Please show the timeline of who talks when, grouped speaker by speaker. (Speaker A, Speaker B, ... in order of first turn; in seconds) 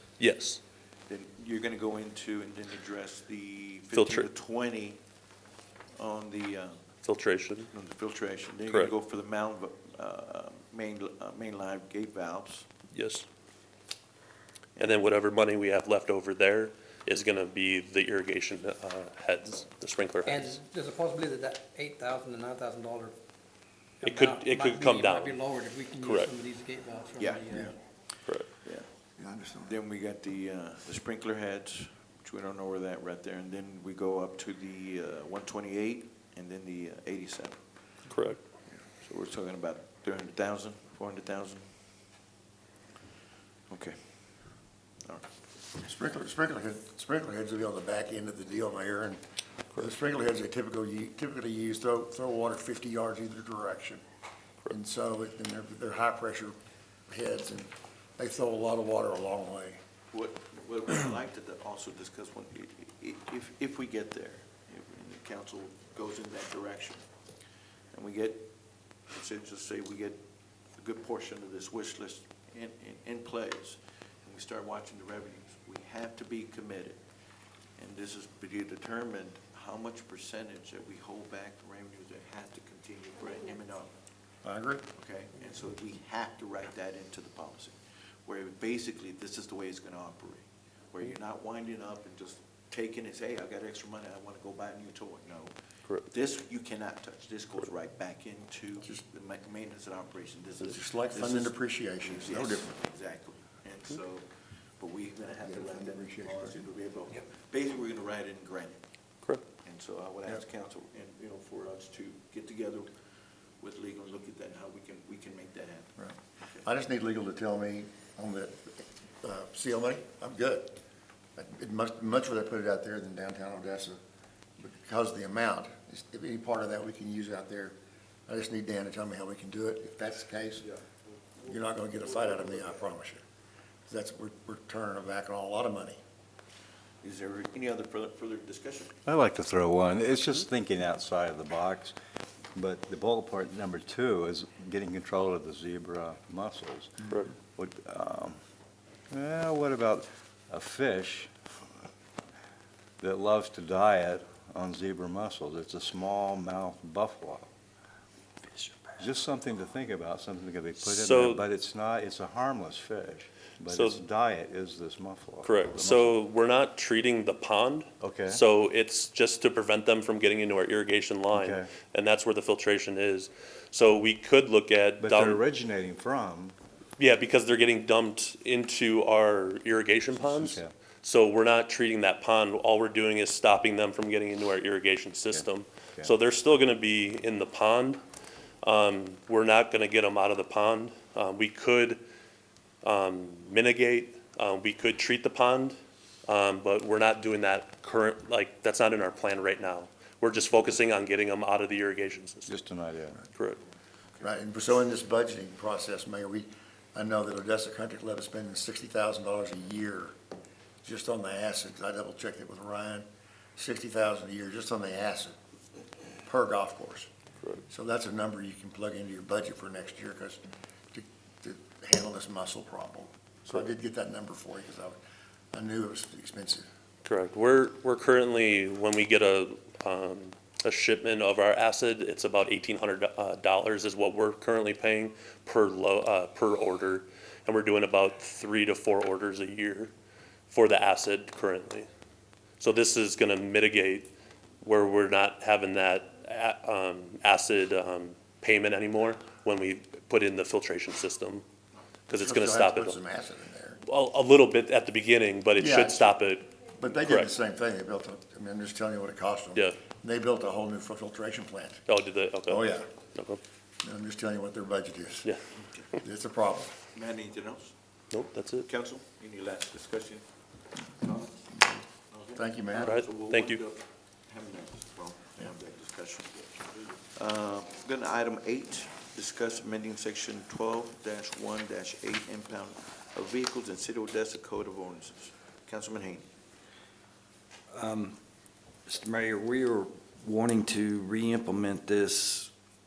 Speaker A: 0.2-0.6, 3.9-4.3, 7.0-7.7, 12.9-13.3, 14.8-20.6, 24.0-25.4, 26.0-26.3, 38.1-38.4, 147.1-147.3, 160.8-161.4, 163.7-164.0, 165.4-175.4, 177.0-188.0, 188.6-192.0, 192.8-202.5, 227.1-239.9, 240.5-241.9, 242.6-244.1, 244.6-251.4, 252.1-253.0, 253.8-257.3, 261.9-263.4, 268.1-268.7, 272.8-273.6
Speaker B: 1.1-5.0, 6.0-6.9, 7.7-12.7, 27.2-28.9, 29.6-37.6, 38.9-41.6, 43.7-44.5, 60.1-67.0, 67.9-68.5, 69.1-70.2, 70.8-77.0, 77.8-83.9, 84.9-104.3, 104.8-108.8, 109.6-112.9, 113.6-116.7, 137.0-138.9, 266.9-267.8, 268.6-270.3, 271.0-271.4, 272.1-286.3
Speaker C: 20.2-23.1, 24.0-27.7
Speaker D: 29.2-29.7, 45.8-49.2, 49.7-54.0, 54.7-56.5, 57.1-59.8, 84.4-84.8, 100.6-102.8, 105.4-106.6, 116.0-120.8, 121.4-124.0, 124.6-127.8, 128.3-130.7, 131.4-133.2, 133.9-136.0, 204.2-210.1, 210.8-215.3, 216.2-217.1, 217.7-220.4, 220.9-225.0, 225.5-226.7, 252.2-253.8, 255.6-256.2, 256.8-261.8, 262.5-262.9, 263.8-265.3, 266.0-266.8, 271.5-273.0
Speaker E: 139.1-141.9, 142.6-148.4, 149.1-151.3, 153.0-157.5, 159.0-166.2, 168.0-168.4, 171.3-171.7, 175.0-176.6, 180.1-180.7, 185.3-186.2, 202.5-203.2
Speaker F: 158.5-159.0, 287.7-288.2, 288.9-292.5